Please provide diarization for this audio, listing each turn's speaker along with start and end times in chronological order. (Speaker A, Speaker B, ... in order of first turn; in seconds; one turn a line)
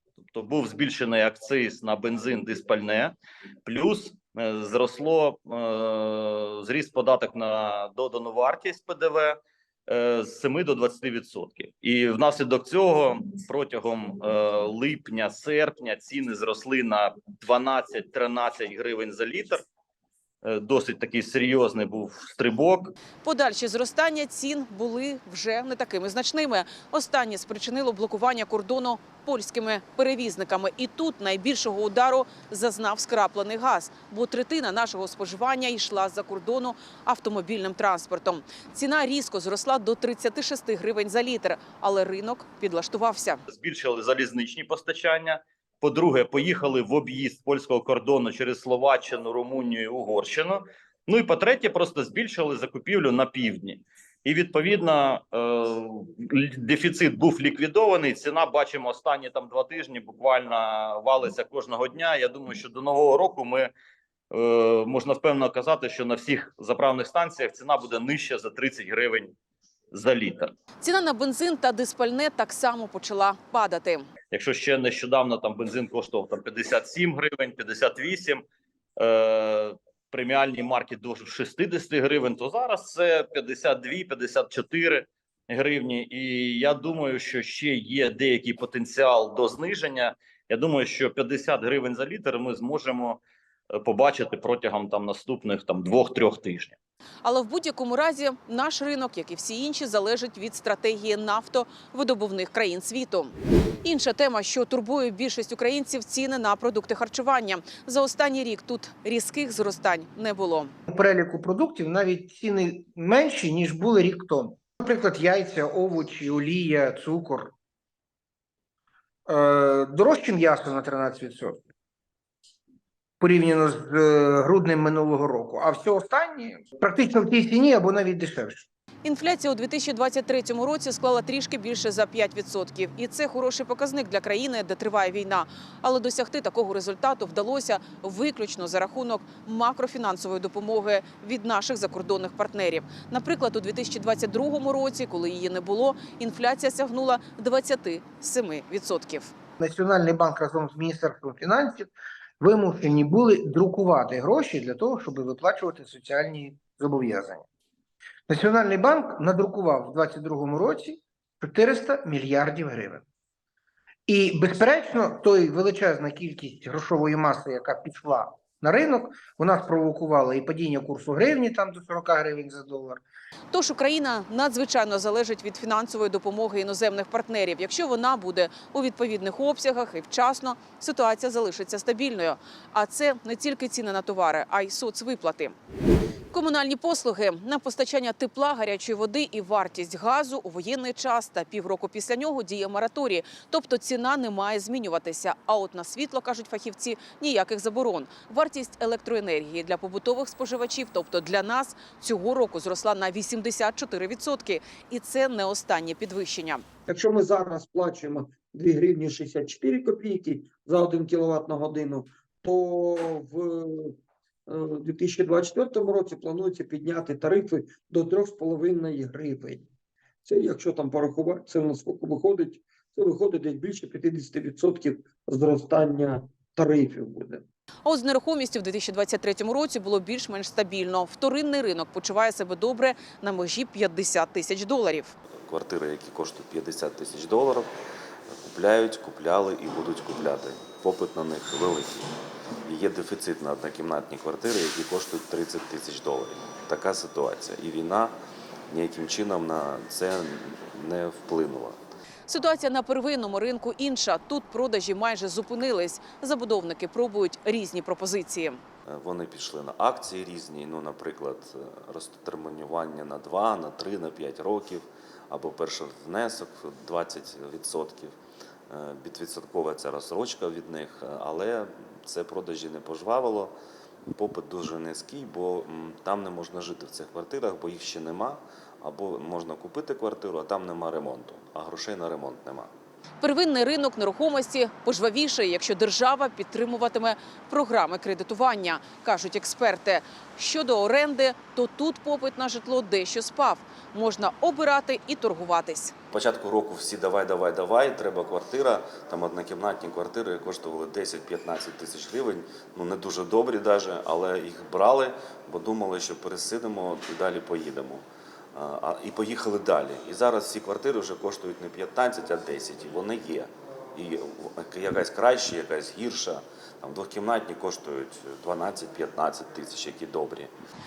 Speaker A: 0.3-3.1
Speaker A: 3.7-9.4
Speaker A: 9.9-19.6
Speaker A: 20.4-22.9
Speaker B: 23.2-43.4
Speaker A: 43.5-63.7
Speaker A: 64.3-69.3
Speaker A: 69.9-70.5
Speaker B: 70.8-74.1
Speaker A: 74.3-78.4
Speaker A: 79.0-93.2
Speaker A: 93.8-96.8
Speaker B: 97.2-110.7
Speaker C: 110.9-117.5
Speaker C: 119.3-121.6
Speaker C: 123.2-128.7
Speaker B: 129.0-149.3
Speaker C: 149.6-157.4
Speaker C: 158.3-163.0
Speaker C: 164.1-173.0
Speaker B: 173.5-185.6
Speaker B: 186.3-206.7
Speaker D: 206.9-214.0
Speaker D: 214.5-219.7
Speaker D: 220.2-227.4
Speaker B: 227.8-235.2
Speaker E: 235.4-237.7
Speaker E: 238.4-242.1
Speaker E: 242.7-248.1
Speaker E: 248.7-251.8
Speaker B: 252.3-258.6
Speaker E: 258.9-268.1
Speaker E: 268.7-273.5
Speaker E: 274.1-282.7
Speaker B: 283.2-295.9
Speaker E: 296.1-320.5